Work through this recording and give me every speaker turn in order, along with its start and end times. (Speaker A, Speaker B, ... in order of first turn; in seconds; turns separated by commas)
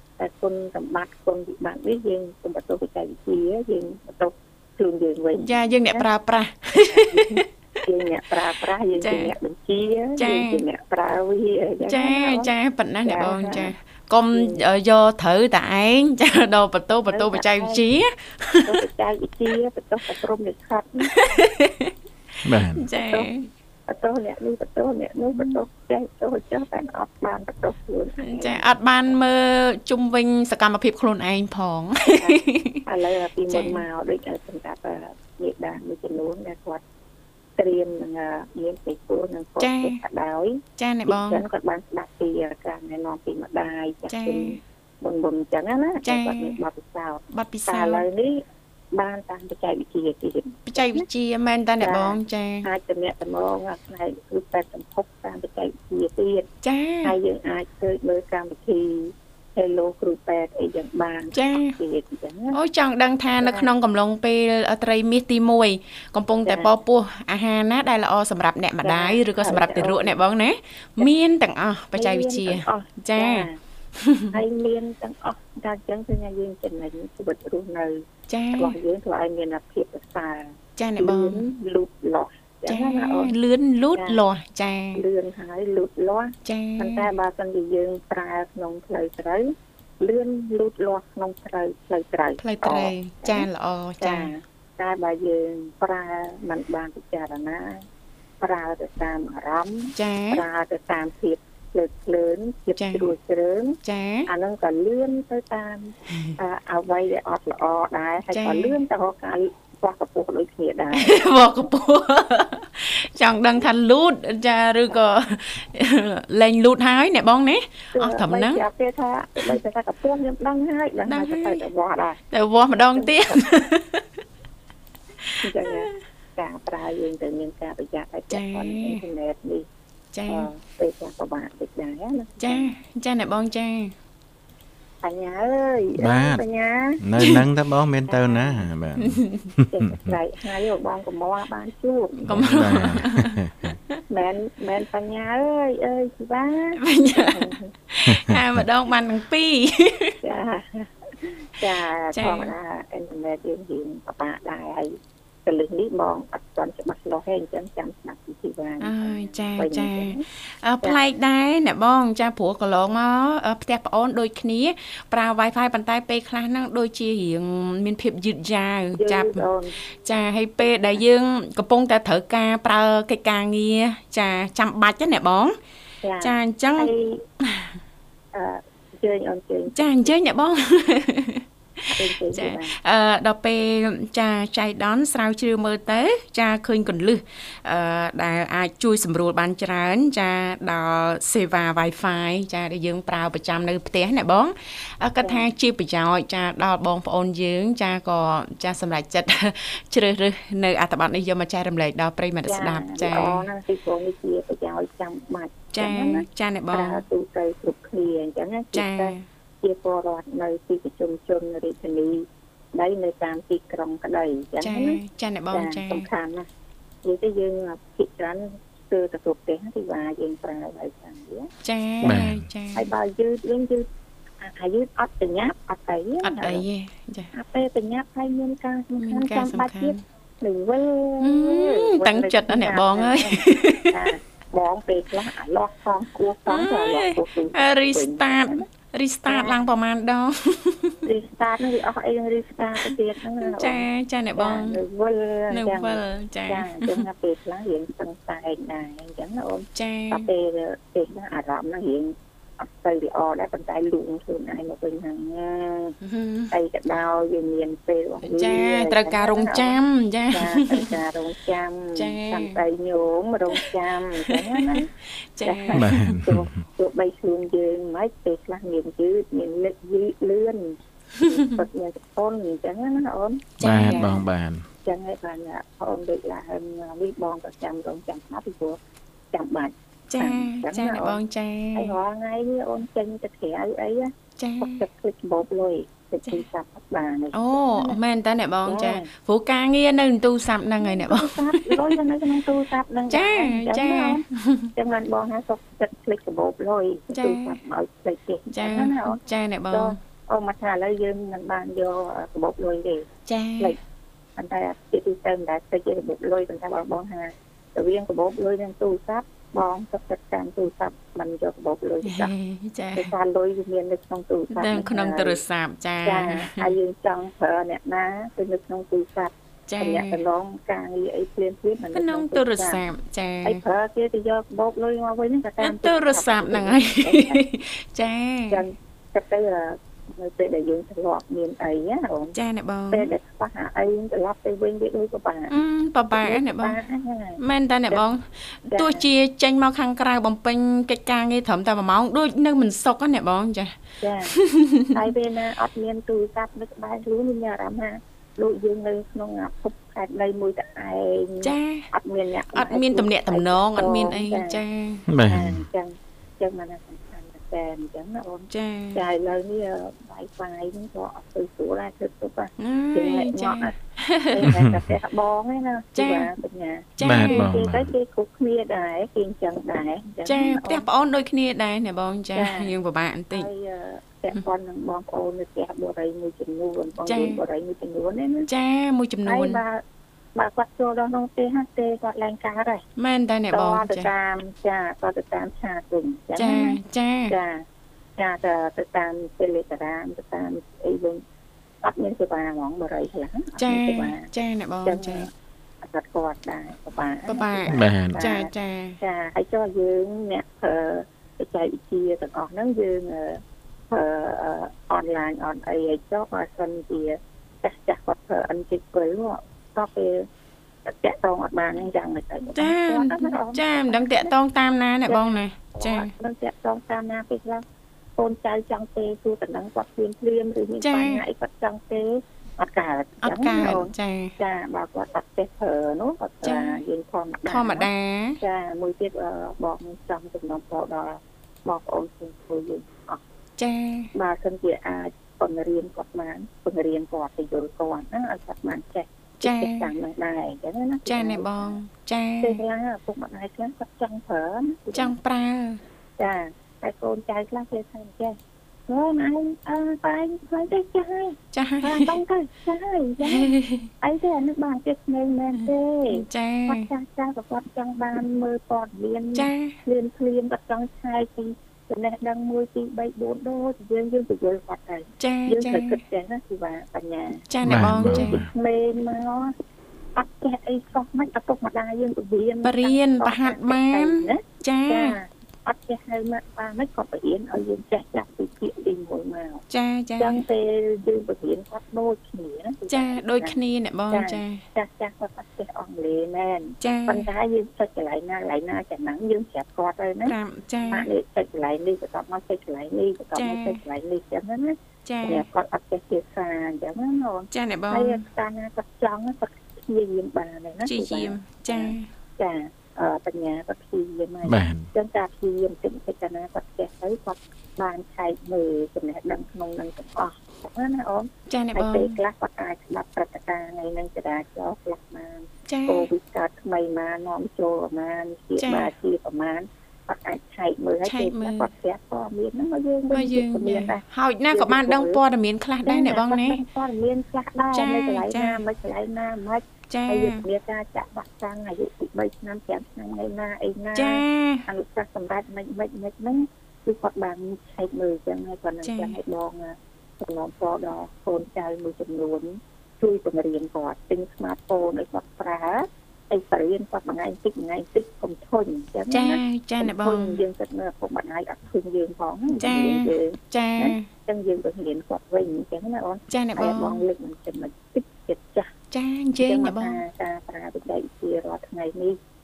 Speaker A: 0.2-6.0, Speaker B: 5.4-7.5, Speaker A: 6.7-12.5, Speaker B: 9.0-9.3, Speaker B: 10.2-10.6, Speaker B: 11.9-18.8, Speaker A: 13.1-13.7, Speaker A: 14.3-14.6, Speaker A: 17.1-17.8, Speaker A: 18.6-21.1, Speaker B: 21.1-23.4, Speaker C: 22.4-22.9, Speaker A: 22.9-23.3, Speaker A: 23.9-28.7, Speaker B: 28.2-32.8, Speaker A: 32.1-36.8, Speaker B: 33.5-33.8, Speaker A: 37.6-51.1, Speaker B: 39.6-40.0, Speaker B: 40.8-41.4, Speaker B: 44.1-44.6, Speaker B: 46.0-46.6, Speaker B: 47.3-48.0, Speaker B: 50.7-52.7, Speaker A: 51.8-56.5, Speaker B: 56.6-57.2, Speaker A: 57.0-62.6, Speaker B: 61.3-61.8, Speaker B: 62.5-73.5, Speaker A: 63.4-63.7, Speaker A: 68.8-70.2, Speaker A: 72.0-73.6, Speaker B: 74.0-74.3, Speaker A: 74.3-78.0, Speaker B: 78.3-78.8, Speaker A: 78.6-83.4, Speaker B: 80.8-81.5, Speaker B: 82.7-85.0, Speaker A: 84.0-84.2, Speaker A: 85.0-93.5, Speaker B: 86.5-87.1, Speaker B: 92.4-94.3, Speaker A: 94.0-97.8, Speaker A: 98.4-111.7, Speaker B: 100.0-100.4, Speaker B: 102.8-103.1, Speaker B: 103.8-104.3, Speaker B: 108.3-108.8, Speaker B: 110.9-118.6, Speaker A: 117.9-122.2, Speaker B: 121.1-121.6, Speaker B: 122.3-124.0, Speaker A: 123.0-123.5, Speaker B: 125.2-126.0, Speaker A: 125.4-129.7, Speaker B: 128.3-129.0, Speaker B: 130.1-130.5, Speaker A: 130.3-132.7, Speaker B: 132.4-133.9, Speaker A: 135.0-137.0, Speaker C: 136.0-136.4, Speaker C: 137.0-140.2, Speaker A: 138.1-138.7, Speaker B: 139.0-139.5, Speaker A: 139.7-142.6, Speaker B: 142.3-143.4, Speaker C: 142.3-143.8, Speaker A: 144.1-147.7, Speaker B: 146.8-150.2, Speaker C: 148.1-148.6, Speaker A: 150.2-160.2, Speaker B: 152.1-152.5, Speaker B: 158.8-175.6, Speaker A: 169.0-169.8, Speaker A: 170.6-171.0, Speaker A: 176.0-177.2, Speaker B: 176.2-176.9, Speaker B: 177.4-177.7, Speaker A: 178.3-180.1, Speaker B: 179.7-181.4, Speaker A: 181.9-182.8, Speaker B: 182.0-203.5, Speaker A: 195.2-195.5, Speaker A: 202.5-215.0, Speaker B: 205.7-207.0, Speaker B: 208.7-209.2, Speaker B: 214.6-216.1, Speaker A: 215.5-216.5, Speaker A: 217.0-221.5, Speaker B: 221.6-222.9, Speaker A: 222.0-223.9, Speaker C: 222.0-222.4, Speaker A: 224.4-226.6, Speaker B: 226.2-227.3, Speaker A: 227.3-238.7, Speaker B: 229.0-230.0, Speaker B: 231.2-234.1, Speaker B: 236.5-240.9, Speaker A: 239.3-239.6, Speaker A: 241.0-256.0, Speaker B: 243.4-244.8, Speaker B: 245.5-247.1, Speaker B: 249.8-250.3, Speaker B: 256.0-256.5, Speaker A: 256.5-259.8, Speaker B: 258.2-260.9, Speaker A: 260.3-264.9, Speaker B: 262.0-262.6, Speaker B: 264.3-266.1, Speaker A: 265.4-274.2, Speaker C: 265.7-266.5, Speaker B: 271.2-271.6, Speaker B: 273.6-274.1, Speaker C: 273.6-274.6, Speaker A: 274.8-278.8, Speaker A: 279.3-281.2, Speaker B: 280.1-281.9, Speaker A: 281.8-288.0, Speaker B: 284.4-284.8, Speaker B: 287.3-292.0, Speaker A: 288.7-289.1, Speaker A: 290.8-303.1, Speaker B: 293.1-294.7, Speaker B: 297.1-297.6, Speaker B: 298.6-300.0, Speaker B: 303.3-303.8, Speaker A: 304.4-312.3, Speaker B: 312.0-313.1, Speaker A: 312.9-315.4, Speaker B: 314.5-316.7, Speaker A: 316.1-322.8, Speaker B: 319.7-320.2, Speaker B: 321.9-323.6, Speaker A: 323.4-327.4, Speaker B: 325.6-328.6, Speaker A: 328.5-332.4, Speaker B: 332.4-333.1, Speaker A: 332.9-335.6, Speaker B: 335.5-336.8, Speaker A: 336.1-338.0, Speaker B: 337.4-343.7, Speaker A: 338.7-339.0, Speaker A: 344.0-344.4, Speaker B: 344.3-344.9, Speaker A: 344.9-354.6, Speaker B: 351.4-351.9, Speaker B: 352.5-355.1, Speaker C: 355.1-355.6, Speaker A: 355.2-363.7, Speaker B: 358.5-359.0, Speaker B: 362.6-364.5, Speaker A: 364.3-370.9, Speaker C: 364.4-364.9, Speaker B: 366.0-366.3, Speaker B: 367.0-367.5, Speaker C: 367.0-367.9, Speaker B: 370.3-373.5, Speaker A: 372.4-372.7, Speaker A: 373.3-378.5, Speaker B: 377.1-377.4, Speaker B: 378.5-379.6, Speaker A: 379.3-379.8, Speaker A: 380.4-382.8, Speaker B: 383.0-384.1, Speaker A: 383.5-387.6, Speaker B: 386.4-387.3, Speaker A: 388.2-391.2, Speaker A: 391.8-394.3, Speaker B: 393.6-395.3, Speaker A: 394.9-395.3, Speaker A: 395.8-410.3, Speaker B: 397.3-399.0, Speaker C: 397.7-398.2, Speaker A: 410.9-414.3, Speaker B: 412.6-416.1, Speaker A: 415.1-417.6, Speaker A: 418.2-427.9, Speaker B: 420.8-421.2, Speaker B: 423.2-424.3, Speaker B: 426.4-426.8, Speaker B: 427.5-428.4, Speaker A: 428.4-433.2, Speaker B: 433.6-434.1, Speaker A: 434.1-441.8, Speaker B: 439.4-439.9, Speaker B: 441.1-442.6, Speaker A: 442.4-445.2, Speaker B: 444.9-445.8, Speaker A: 446.2-448.4, Speaker A: 448.9-469.5, Speaker B: 451.5-452.2, Speaker B: 453.2-453.9, Speaker B: 455.6-456.9, Speaker B: 459.4-459.8, Speaker B: 465.2-466.0, Speaker B: 467.5-468.4, Speaker C: 467.6-468.5, Speaker A: 470.1-479.6, Speaker B: 472.6-475.2, Speaker B: 479.7-480.4, Speaker A: 480.2-483.6, Speaker B: 482.9-484.6, Speaker A: 484.1-490.4, Speaker B: 486.8-487.3, Speaker B: 490.3-491.1, Speaker A: 490.9-525.2, Speaker B: 493.4-493.8, Speaker B: 495.1-495.5, Speaker B: 497.5-498.2, Speaker B: 500.9-502.1, Speaker C: 504.4-504.9, Speaker B: 511.5-512.2, Speaker B: 515.7-516.1, Speaker B: 518.6-518.9, Speaker B: 521.0-521.7, Speaker B: 523.1-526.6, Speaker A: 525.9-558.7, Speaker B: 527.7-528.6, Speaker B: 529.9-530.4, Speaker B: 534.0-534.6, Speaker B: 538.8-539.2, Speaker B: 549.1-550.4, Speaker B: 552.6-554.1, Speaker B: 556.3-557.0, Speaker B: 558.9-560.0, Speaker A: 559.4-562.2